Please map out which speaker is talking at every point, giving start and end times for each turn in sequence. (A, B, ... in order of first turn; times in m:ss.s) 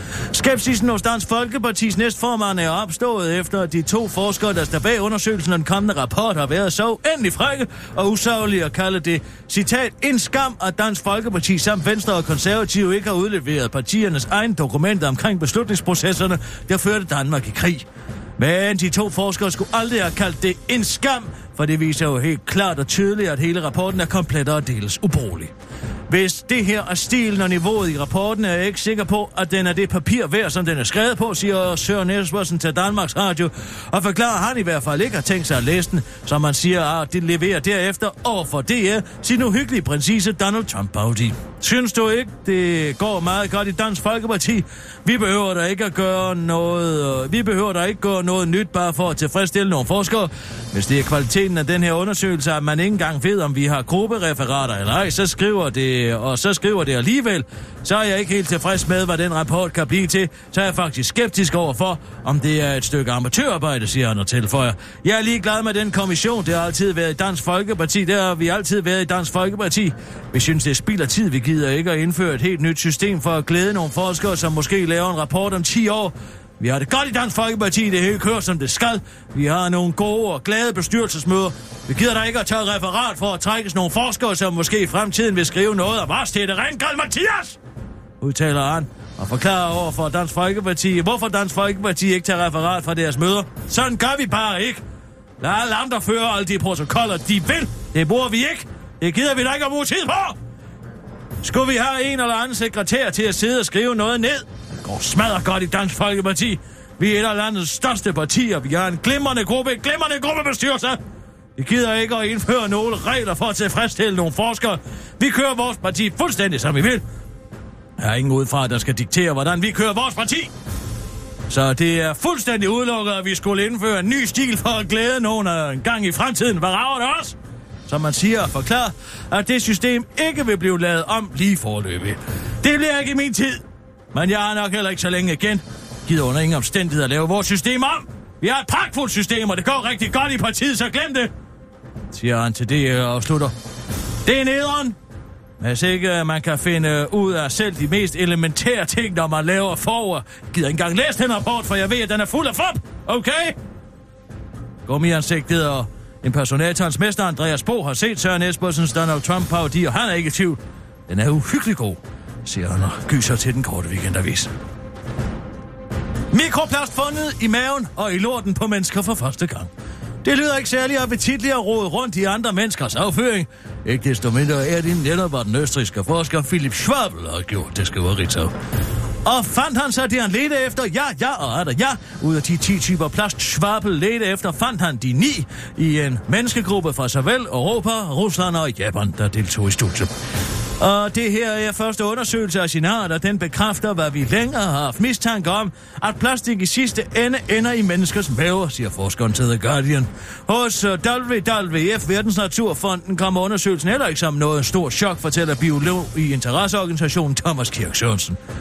0:00.3-0:17.8 A
0:18.4-0:25.5 A
0:26.1-1:27.6 A
1:28.2-1:34.8 A
1:35.4-1:40.4 A
1:41.4-1:51.0 A
1:51.6-1:57.0 A
1:58.0-2:00.5 A
2:01.5-2:13.6 A
2:14.1-2:21.3 A
2:22.1-2:23.5 A
2:24.2-2:25.0 A
2:25.6-2:33.6 A
2:34.8-2:44.5 A
2:46.3-2:49.7 A
2:50.2-2:58.5 A
2:59.2-3:10.1 A
3:10.8-3:28.4 A